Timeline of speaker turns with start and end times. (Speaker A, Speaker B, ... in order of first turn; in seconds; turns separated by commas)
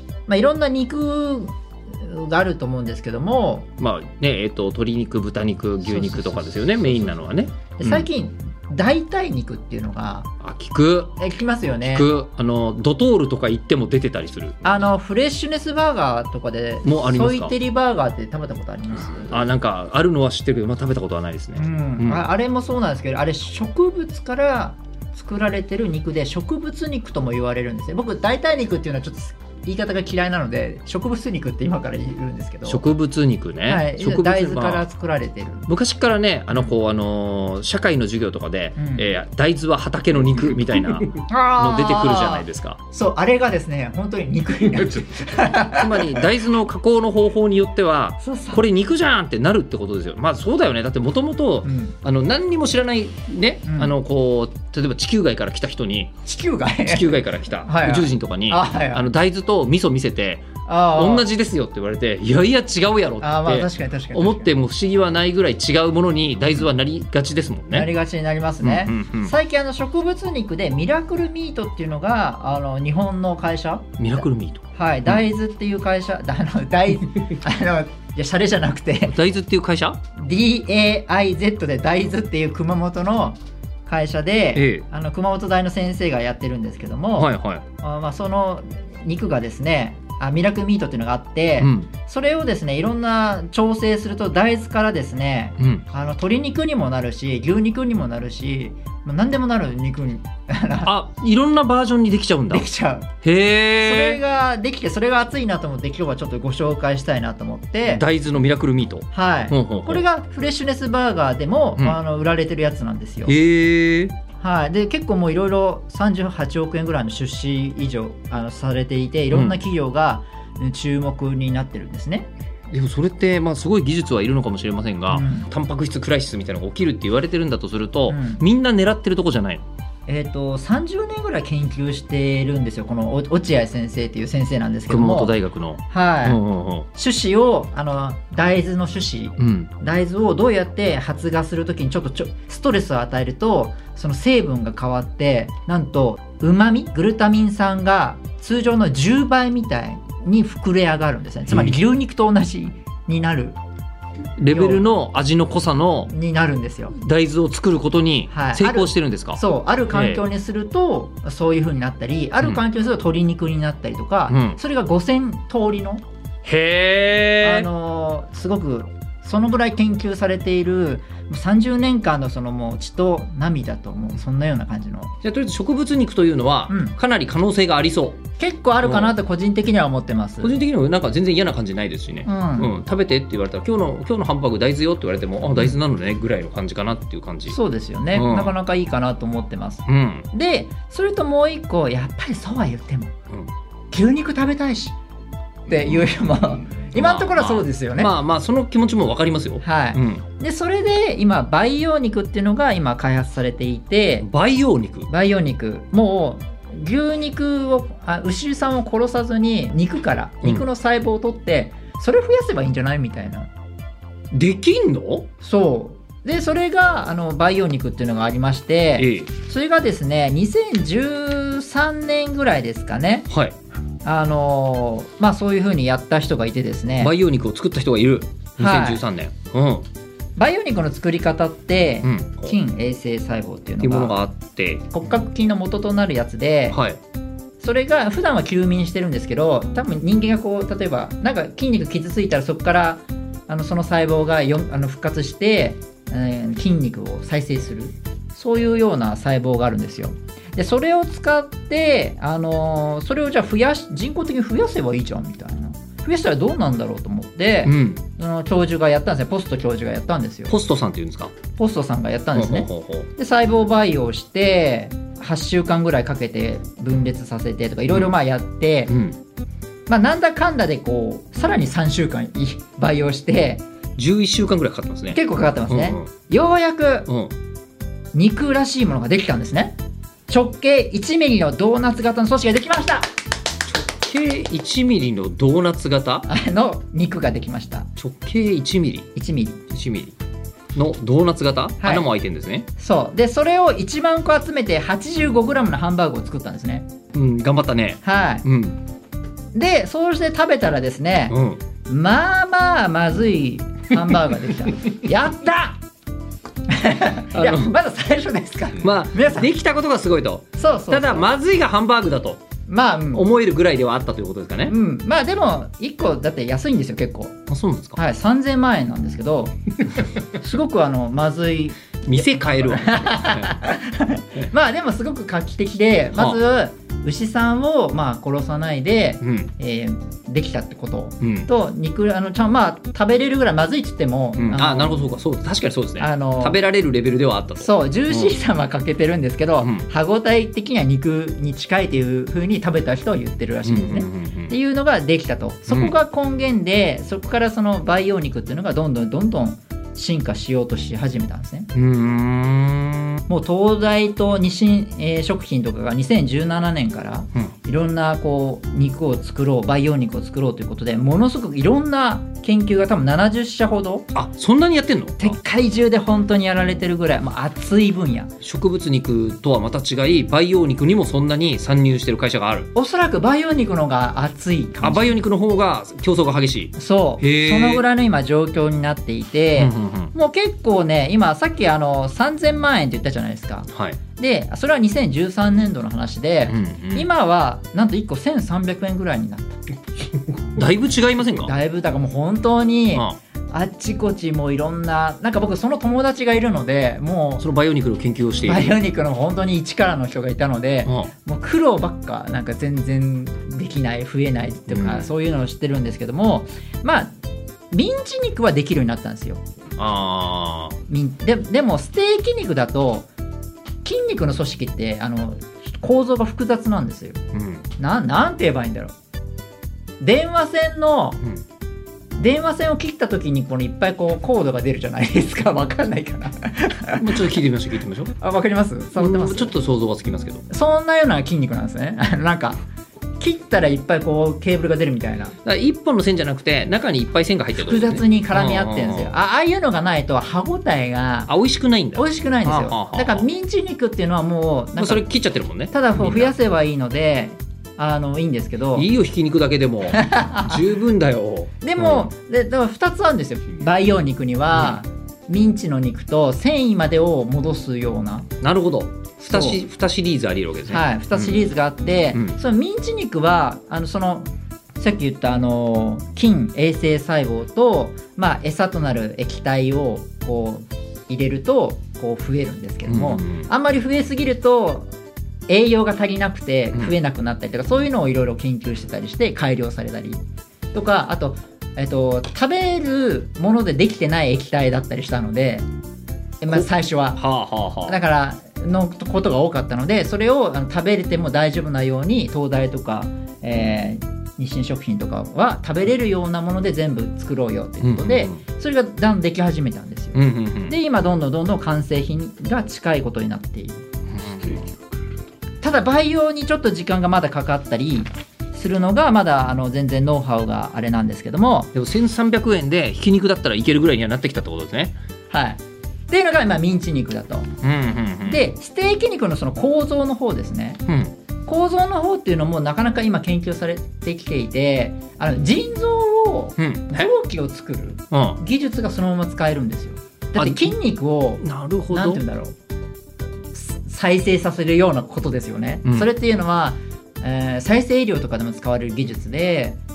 Speaker A: 0.3-3.7, Speaker B: 3.8-8.1, Speaker A: 5.8-10.3, Speaker B: 10.4-11.1, Speaker A: 11.2-12.2, Speaker B: 11.8-14.7, Speaker A: 14.6-19.5, Speaker B: 16.8-17.5, Speaker B: 19.3-22.2, Speaker A: 21.6-32.9, Speaker B: 32.6-34.9, Speaker A: 33.6-35.7, Speaker B: 35.7-42.8, Speaker A: 38.8-39.2, Speaker A: 41.1-46.2, Speaker B: 45.7-56.1, Speaker A: 48.2-48.6, Speaker A: 51.6-51.9, Speaker A: 53.7-53.9, Speaker A: 56.2-59.0, Speaker B: 56.9-67.9, Speaker A: 60.6-61.3, Speaker A: 63.2-64.5, Speaker A: 67.7-74.2, Speaker B: 68.6-69.3, Speaker B: 74.0-75.1, Speaker A: 74.7-79.1, Speaker B: 79.0-80.0, Speaker A: 80.2-100.9, Speaker B: 84.5-84.8, Speaker B: 87.2-87.6, Speaker B: 91.6-91.9, Speaker B: 95.6-95.8, Speaker B: 100.8-102.7, Speaker A: 102.5-103.1, Speaker B: 103.2-104.2, Speaker A: 103.8-108.0, Speaker B: 107.8-110.0, Speaker A: 109.1-113.3, Speaker B: 113.2-114.1, Speaker A: 114.4-122.3, Speaker B: 119.3-119.6, Speaker B: 122.7-129.6, Speaker A: 125.1-125.5, Speaker A: 128.1-128.4, Speaker A: 130.1-135.3, Speaker B: 134.9-136.9, Speaker A: 135.9-136.4, Speaker A: 136.9-153.6, Speaker B: 139.4-139.7, Speaker B: 151.5-151.8, Speaker B: 154.4-156.1, Speaker A: 154.5-154.9, Speaker A: 156.1-156.9, Speaker B: 156.9-160.2, Speaker A: 158.3-166.0, Speaker B: 164.3-164.6, Speaker B: 166.4-167.7, Speaker A: 167.4-175.1, Speaker B: 175.2-178.2, Speaker A: 176.7-176.9, Speaker A: 178.4-180.6, Speaker B: 178.8-179.1, Speaker B: 180.4-187.6, Speaker A: 182.2-182.7, Speaker A: 187.5-193.1, Speaker B: 188.1-188.5, Speaker B: 189.8-190.3, Speaker A: 193.9-194.9, Speaker A: 195.7-198.1, Speaker B: 195.7-196.1, Speaker B: 196.9-200.2, Speaker A: 199.6-204.3, Speaker B: 204.2-205.1, Speaker A: 205.1-213.5, Speaker B: 214.3-215.3, Speaker A: 215.4-223.3, Speaker B: 219.0-219.3, Speaker B: 223.3-223.6, Speaker A: 224.0-227.1, Speaker B: 227.0-229.8, Speaker A: 228.6-229.0, Speaker A: 230.4-234.2, Speaker B: 232.0-232.6, Speaker B: 233.8-234.8, Speaker A: 234.9-236.8, Speaker B: 236.7-237.0, Speaker A: 237.6-260.6, Speaker B: 257.6-258.0, Speaker B: 260.5-261.3, Speaker A: 261.6-268.9, Speaker B: 262.3-263.1, Speaker B: 268.9-269.2, Speaker A: 269.9-273.6, Speaker B: 273.9-276.1, Speaker A: 275.1-277.1, Speaker B: 277.1-277.3, Speaker A: 278.1-279.7, Speaker A: 280.3-283.1, Speaker B: 283.7-286.3, Speaker A: 286.3-287.9, Speaker B: 288.0-289.1, Speaker A: 289.1-289.6, Speaker B: 289.7-290.1, Speaker B: 290.7-292.7, Speaker A: 291.8-292.1, Speaker A: 292.8-296.9, Speaker B: 297.1-298.8, Speaker A: 298.0-298.4, Speaker A: 299.5-301.3, Speaker B: 301.3-301.6, Speaker A: 301.9-305.8, Speaker A: 306.7-309.5, Speaker B: 307.3-307.7, Speaker B: 308.8-312.4, Speaker A: 310.6-311.3, Speaker A: 312.7-313.3, Speaker B: 313.1-314.7, Speaker A: 314.7-317.3, Speaker B: 317.5-318.0, Speaker A: 317.9-319.6, Speaker A: 320.3-335.1, Speaker B: 322.1-323.6, Speaker B: 326.1-326.4, Speaker B: 329.2-329.5, Speaker B: 331.2-331.5, Speaker B: 334.4-338.4, Speaker A: 336.0-336.6, Speaker A: 337.6-351.7, Speaker B: 339.6-339.9, Speaker B: 343.6-344.6, Speaker B: 345.7-345.9, Speaker B: 351.7-353.2, Speaker A: 353.3-364.1, Speaker B: 364.1-365.3, Speaker A: 365.2-368.3, Speaker B: 368.4-372.7, Speaker A: 372.7-375.2, Speaker B: 374.8-377.8, Speaker A: 376.8-389.6, Speaker B: 379.6-380.1, Speaker B: 383.7-384.0, Speaker B: 386.5-387.1, Speaker B: 390.5-391.6, Speaker A: 391.3-397.4, Speaker B: 397.4-398.8, Speaker A: 398.4-407.1, Speaker B: 400.9-401.1, Speaker B: 404.7-405.1, Speaker A: 407.7-409.4, Speaker B: 409.8-410.8, Speaker A: 410.9-413.1, Speaker A: 413.8-417.2, Speaker B: 417.3-417.7, Speaker A: 417.8-418.9, Speaker A: 420.0-421.2, Speaker A: 422.2-427.3, Speaker B: 427.0-428.1, Speaker A: 428.2-429.6, Speaker B: 428.9-430.4, Speaker A: 430.5-432.6, Speaker A: 433.2-435.3, Speaker B: 435.4-439.1, Speaker A: 437.6-441.3, Speaker B: 441.3-443.2, Speaker A: 441.9-445.1, Speaker B: 444.8-446.3, Speaker A: 445.7-448.9, Speaker B: 448.7-452.1, Speaker A: 449.9-450.6, Speaker A: 451.6-458.3, Speaker B: 458.4-461.4, Speaker A: 459.2-459.6, Speaker A: 460.7-474.9, Speaker B: 472.9-473.5, Speaker A: 475.5-480.2, Speaker A: 480.7-485.6, Speaker A: 486.4-487.2, Speaker B: 486.5-488.0, Speaker A: 487.9-503.8, Speaker B: 497.8-498.4, Speaker B: 500.1-500.8, Speaker B: 504.1-504.6, Speaker A: 505.6-511.7, Speaker B: 511.7-514.9, Speaker A: 515.3-517.5, Speaker B: 517.6-518.4, Speaker A: 518.2-520.8, Speaker B: 520.9-521.1, Speaker A: 521.5-532.5, Speaker B: 526.6-527.1, Speaker B: 528.1-528.4, Speaker B: 530.4-530.7, Speaker B: 531.4-532.2, Speaker A: 533.5-539.8